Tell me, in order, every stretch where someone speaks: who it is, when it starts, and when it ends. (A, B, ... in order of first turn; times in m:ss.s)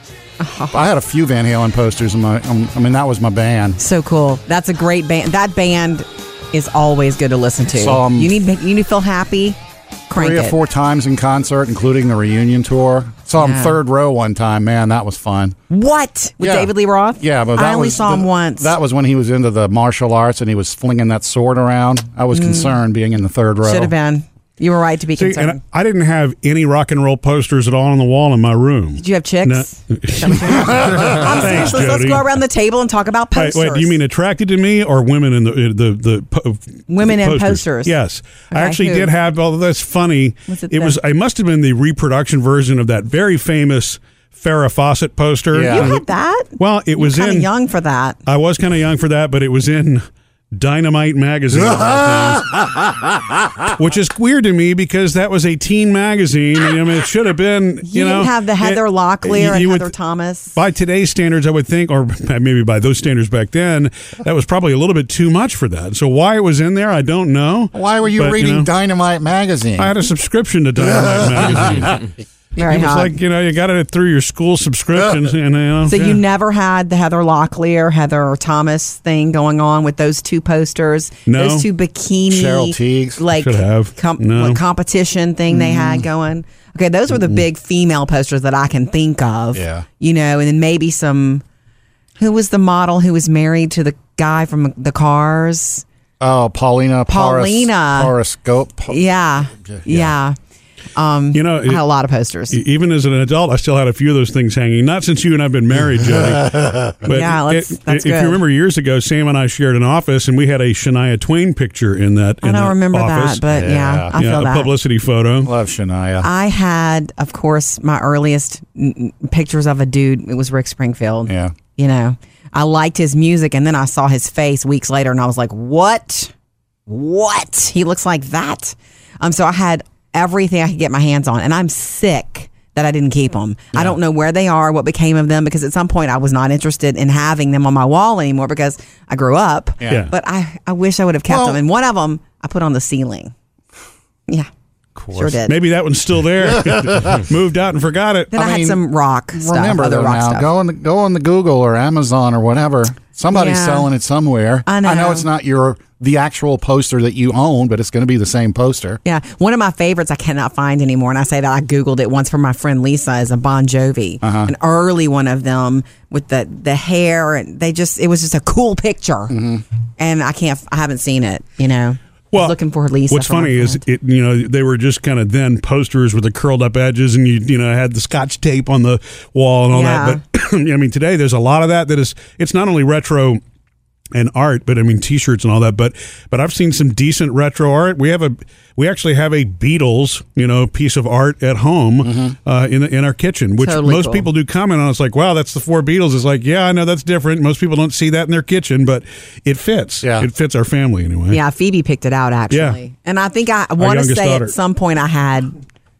0:00.4-0:00.8 A
0:00.7-0:03.8 B
0:03.8-0:09.6 A
0:07.7-0:08.3 B
0:10.1-0:10.6 A
0:10.1-0:15.6 B
0:13.4-0:13.8 A
0:15.7-0:18.7 A
0:16.4-0:23.9 B
0:22.3-0:22.8 A
0:23.6-0:25.6 A
0:25.2-0:32.2 C
0:29.0-0:34.0 A
0:33.3-0:46.0 C
0:36.9-0:38.0 A
0:38.5-0:39.1 A
0:40.5-0:41.0 A
0:45.5-0:45.9 B
0:45.7-0:48.2 A
0:46.6-0:47.5 C
0:48.2-0:52.7 C
0:53.6-0:59.9 C
0:57.8-1:00.5 A
1:00.5-1:08.7 C
1:07.7-1:09.9 B
1:09.8-1:12.0 C
1:11.1-1:11.8 B
1:12.6-1:13.2 A
1:12.6-1:16.2 C
1:15.8-1:31.4 A
1:21.3-1:21.7 C
1:22.3-1:23.2 B
1:23.3-1:24.6 C
1:25.5-1:26.0 B
1:29.5-1:29.8 B
1:32.2-1:35.8 A
1:36.2-1:39.1 B
1:37.1-1:38.1 A
1:38.9-1:40.4 A
1:39.6-1:40.1 B
1:40.9-1:42.6 A
1:41.3-1:41.8 C
1:42.5-1:53.4 C
1:47.0-1:48.4 A
1:52.4-1:54.7 A
1:53.5-1:54.1 B
1:54.1-1:55.5 C
1:55.4-1:56.3 B
1:56.2-2:06.3 A
2:01.2-2:01.6 B
2:06.9-2:23.3 A
2:21.3-2:21.6 B
2:25.0-2:25.4 B
2:25.1-2:25.6 A
2:25.4-2:28.3 C
2:28.3-2:30.5 A
2:28.3-2:28.8 B
2:29.3-2:39.0 B
2:33.3-2:33.9 A
2:34.6-2:35.3 A
2:39.0-2:49.3 A
2:44.2-2:44.5 B
2:49.3-2:49.6 B
2:50.0-2:53.8 A
2:53.1-3:03.4 C
2:59.7-3:00.2 A
3:04.1-3:21.4 C
3:12.0-3:12.3 B
3:13.6-3:14.3 A
3:21.3-3:25.5 A
3:22.5-3:22.8 C
3:23.8-3:24.5 C